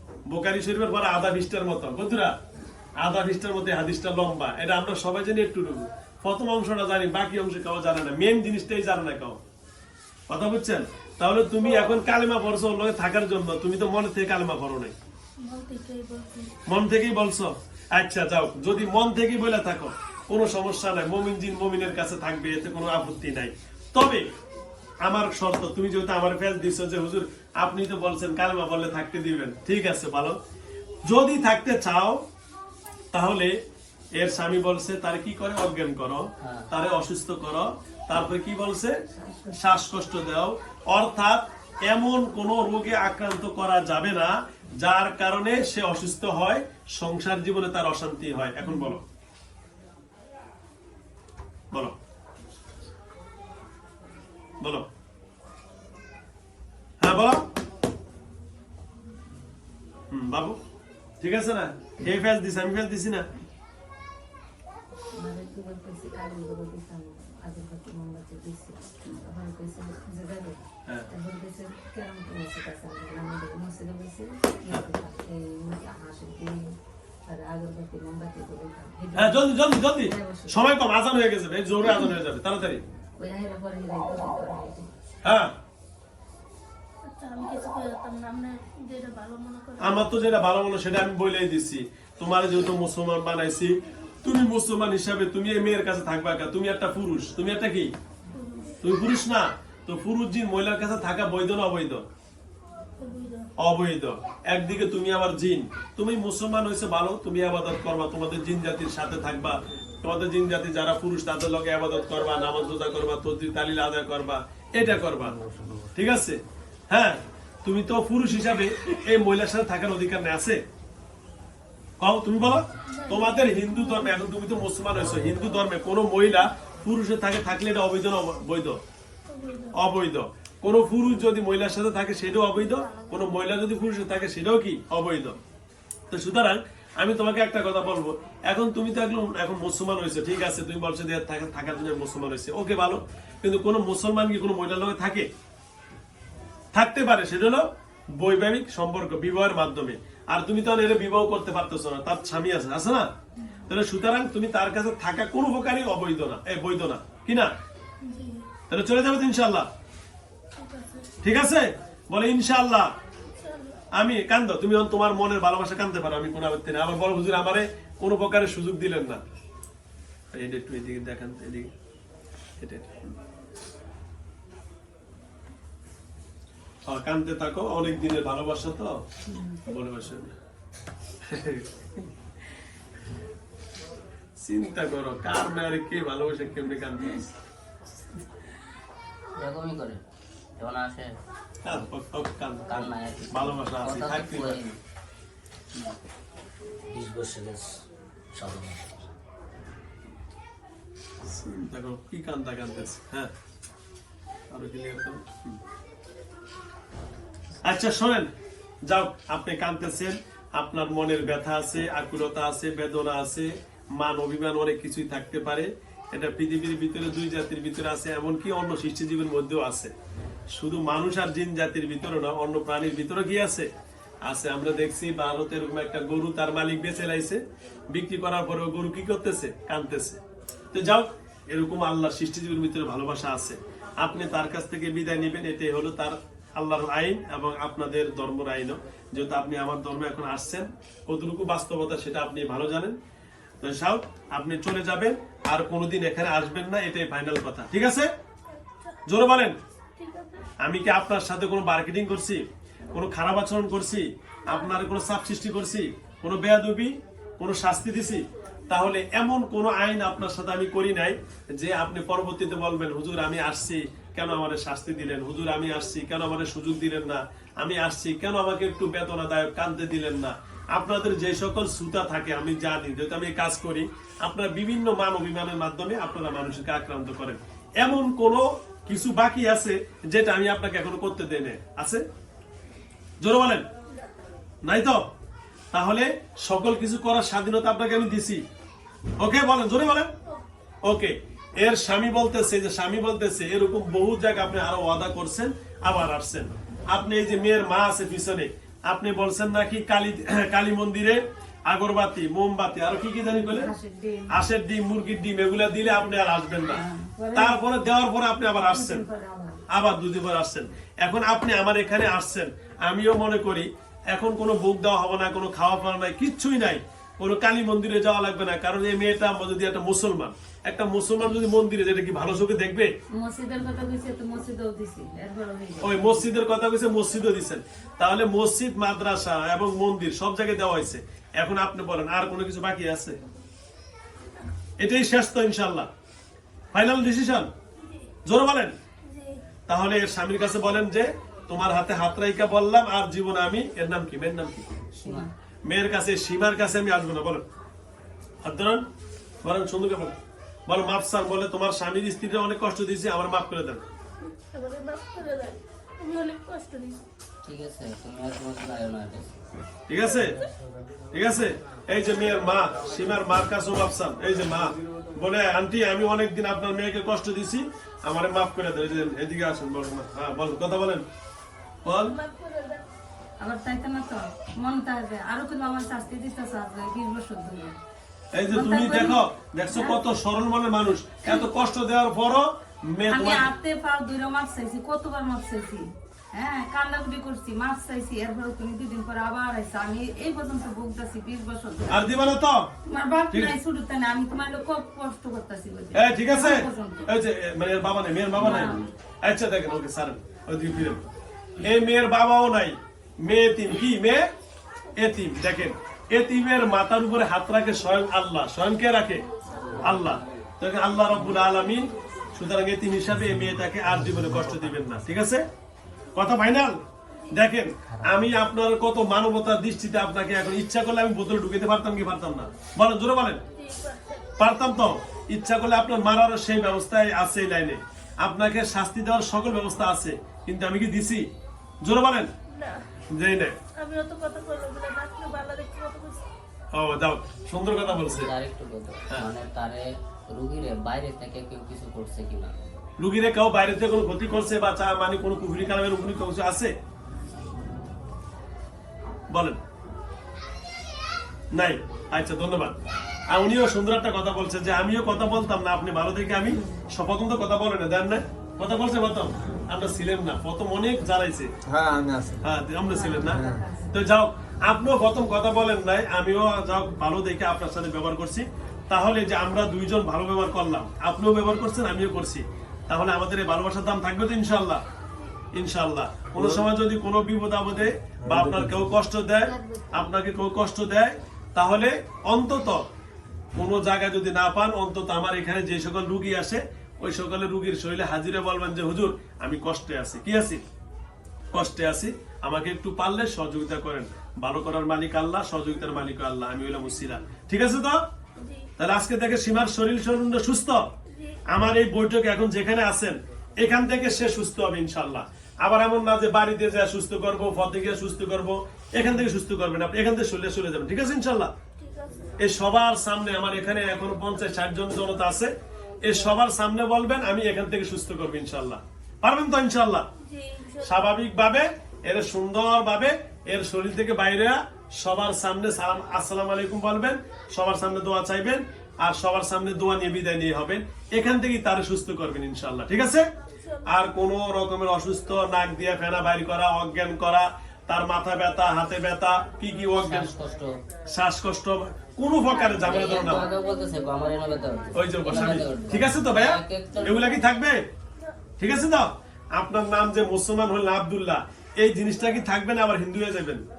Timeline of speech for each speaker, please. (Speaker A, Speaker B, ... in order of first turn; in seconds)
Speaker A: 0.3-2.3, 3.0-9.4, 10.3-14.9, 16.7-24.2, 25.0-30.4, 31.1-32.2, 33.1-33.6, 34.1-39.0, 39.5-49.0, 54.6-54.9, 57.0-57.5, 60.1-60.6, 61.2-63.3, 79.1-82.8, 85.2-85.5, 89.8-97.9, 98.8-102.0, 103.6-115.4, 115.9-120.6, 122.0-128.8, 129.7-135.4, 136.1-145.3, 146.7-153.1, 153.7-157.5, 158.7-159.7, 161.2-162.9, 163.9-169.2, 170.3-171.7, 172.6-173.1, 176.9-178.9, 179.7-180.3, 181.2-182.0, 184.4-187.3, 191.6-194.6, 201.2-203.3, 204.5-205.6, 207.6-208.3, 208.9-219.9, 220.5-223.7, 224.2-230.2, 230.7-243.0, 243.6-248.1, 249.1-249.6, 250.6-252.4, 252.9-282.0, 283.2-283.6, 284.6-285.0, 285.7-288.4, 289.2-290.1, 290.8-303.7, 304.3-309.1, 309.7-322.9, 325.8-333.2, 334.8-335.9, 336.7-337.5, 338.2-338.7, 339.7-344.8, 345.7-347.4, 348.4-348.9, 349.4-353.8, 359.9-360.4, 361.1-371.0, 371.8-372.1, 378.3-383.5, 391.9-392.7, 395.9-401.0, 401.6-404.2, 405.0-409.2, 409.8-415.4, 416.1-416.8, 417.3-423.4, 424.4-431.2, 431.8-432.3, 433.1-433.6, 436.7-438.3, 443.0-446.7, 449.3-449.6, 451.5-452.8, 453.3-461.5, 462.4-474.8, 475.5-482.8, 483.6-490.6, 491.5-498.0, 498.8-500.9, 501.5-511.5, 512.4-520.0, 520.8-533.2, 533.9-540.3, 541.1-543.5, 544.9-547.8, 548.6-553.6
Speaker B: 15.4-16.5, 87.0-90.1, 98.3-98.8, 103.0-103.5, 122.9-124.2, 129.3-129.8, 158.0-158.4, 160.6-161.1, 163.4-163.8, 248.5-249.0, 250.0-250.5, 337.8-338.1, 339.0-339.4, 354.4-357.0, 371.9-372.8, 423.5-424.3, 432.5-432.8, 433.8-436.3, 498.4-498.7, 501.1-501.4, 511.8-512.3, 520.2-521.0, 533.6-533.9, 542.8-543.2
Speaker C: 36.4-36.7, 189.3-190.0, 190.6-191.1, 192.7-194.8, 196.9-197.8, 198.3-199.0, 357.4-359.3, 437.7-442.8, 539.9-540.8, 542.7-547.3
Speaker D: 39.1-39.7, 65.2-76.6, 77.3-80.7, 83.2-84.9, 179.3-179.6, 303.3-304.3, 306.7-307.6, 308.6-309.6, 323.1-326.2, 345.0-345.3, 373.4-377.8, 378.5-380.0, 383.1-392.2, 392.8-397.1, 398.4-398.8, 462.8-463.9, 479.4-480.1
Speaker E: 115.5-115.8, 461.6-462.4, 463.3-463.6, 478.2-478.9